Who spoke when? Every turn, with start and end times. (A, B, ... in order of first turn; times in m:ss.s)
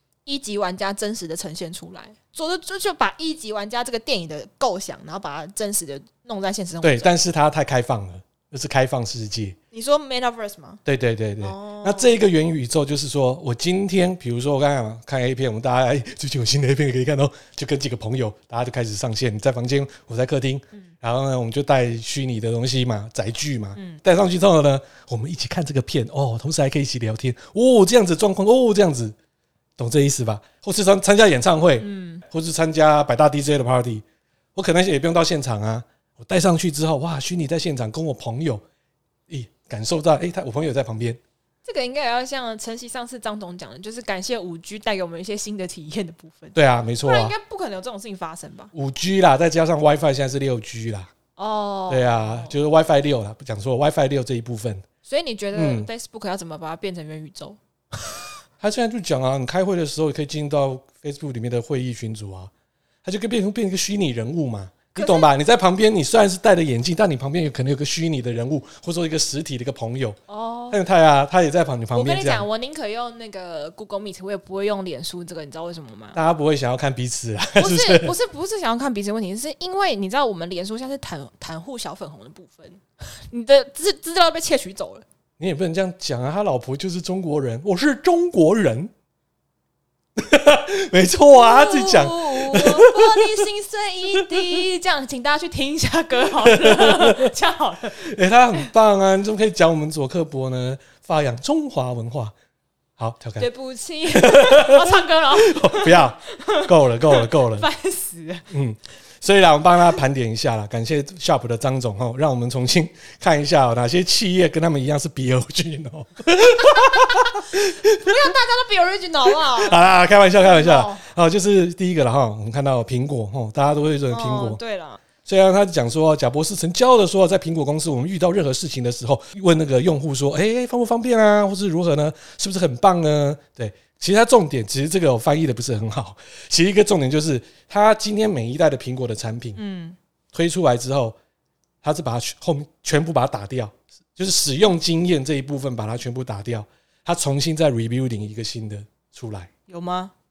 0:00.3-0:07.2 A
0:06.8-0:09.6 B
0:09.7-0:10.8 A
0:10.8-0:29.2 B
0:11.4-0:12.1 A
0:23.8-0:24.0 A
0:29.8-0:34.0 B
0:31.8-0:32.2 A
0:34.6-0:38.6 B
0:39.3-0:41.2 B
0:41.6-0:48.7 A
0:46.6-0:47.4 B
0:48.7-0:51.1 B
0:51.4-0:52.6 A
0:51.9-0:54.8 B
0:55.1-0:58.2 A
0:55.5-0:55.9 B
0:58.6-1:02.5 B
1:03.0-1:10.2 B
1:05.0-1:05.3 A
1:10.3-1:10.8 A
1:10.7-1:12.5 B
1:11.9-1:16.2 A
1:16.2-1:18.2 B
1:17.6-1:25.1 A
1:25.4-1:28.9 B
1:30.2-1:33.5 B
1:31.3-1:38.0 A
1:34.2-1:34.6 B
1:36.4-1:37.3 B
1:38.0-1:42.3 B
1:43.0-1:43.5 B
1:43.4-1:48.5 A
1:44.1-1:47.7 B
1:48.5-1:58.3 B
1:56.6-1:57.4 A
1:58.0-1:59.9 A
1:59.3-2:04.6 B
2:00.4-2:01.0 A
2:04.1-2:05.0 A
2:05.2-2:19.6 B
2:19.6-2:20.0 A
2:20.3-2:21.2 B
2:21.8-2:29.5 B
2:29.7-2:30.1 A